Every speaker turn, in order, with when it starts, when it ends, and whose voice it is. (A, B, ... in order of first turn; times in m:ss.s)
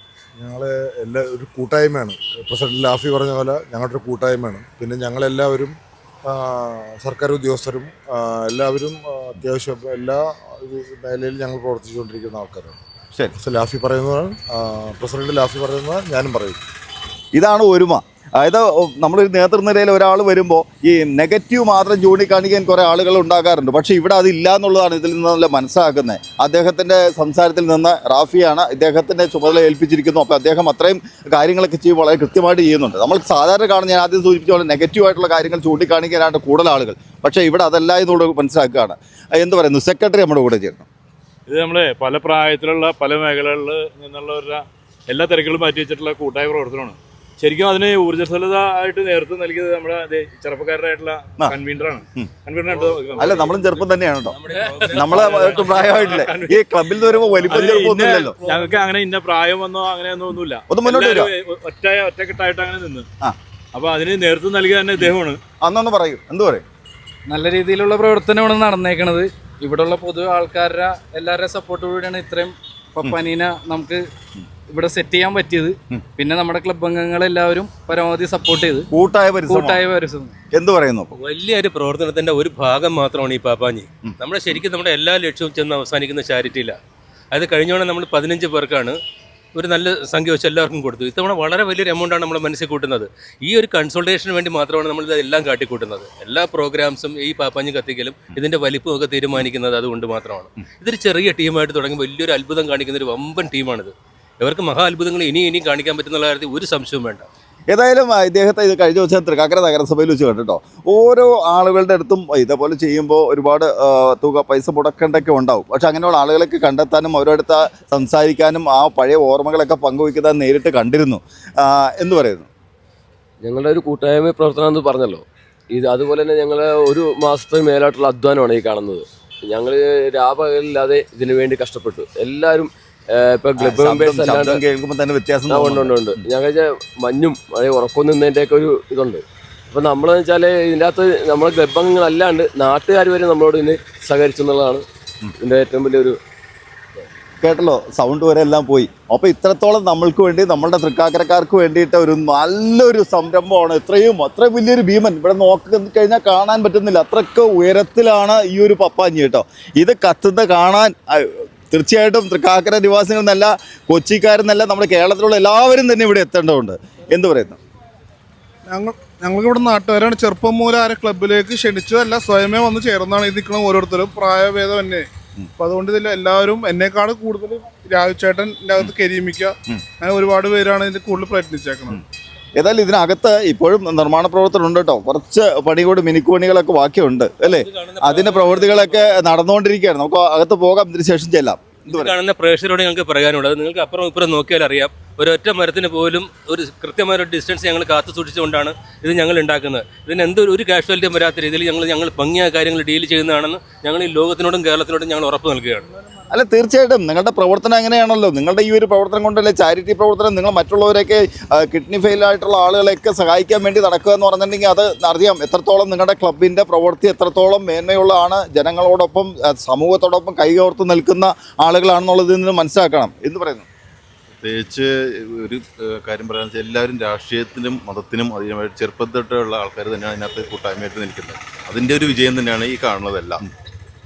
0:00.4-0:12.8 A
0:13.4-0:16.6 A
0:17.3-0:40.9 B
0:41.5-0:53.6 C
0:53.2-0:58.4 B
0:54.3-0:56.3 D
0:54.6-0:56.6 C
0:57.5-1:03.1 C
1:00.7-1:01.3 B
1:03.7-1:05.4 C
1:05.0-1:06.6 B
1:07.3-1:14.0 E
1:14.7-1:18.9 E
1:18.9-1:19.8 B
1:19.5-1:20.4 E
1:20.5-1:21.1 B
1:21.2-1:26.8 D
1:27.3-1:29.0 D
1:29.6-1:47.3 D
1:47.7-2:02.5 B
2:03.4-2:14.6 F
2:13.6-2:16.2 B
2:15.5-2:24.8 F
2:25.4-2:26.2 F
2:27.4-2:47.6 B
2:48.7-2:55.1 G
2:55.6-3:02.0 G
3:02.6-3:12.1 B
3:07.4-3:09.3 D
3:11.9-3:25.9 D
3:26.3-3:43.7 B
3:44.4-3:53.5 H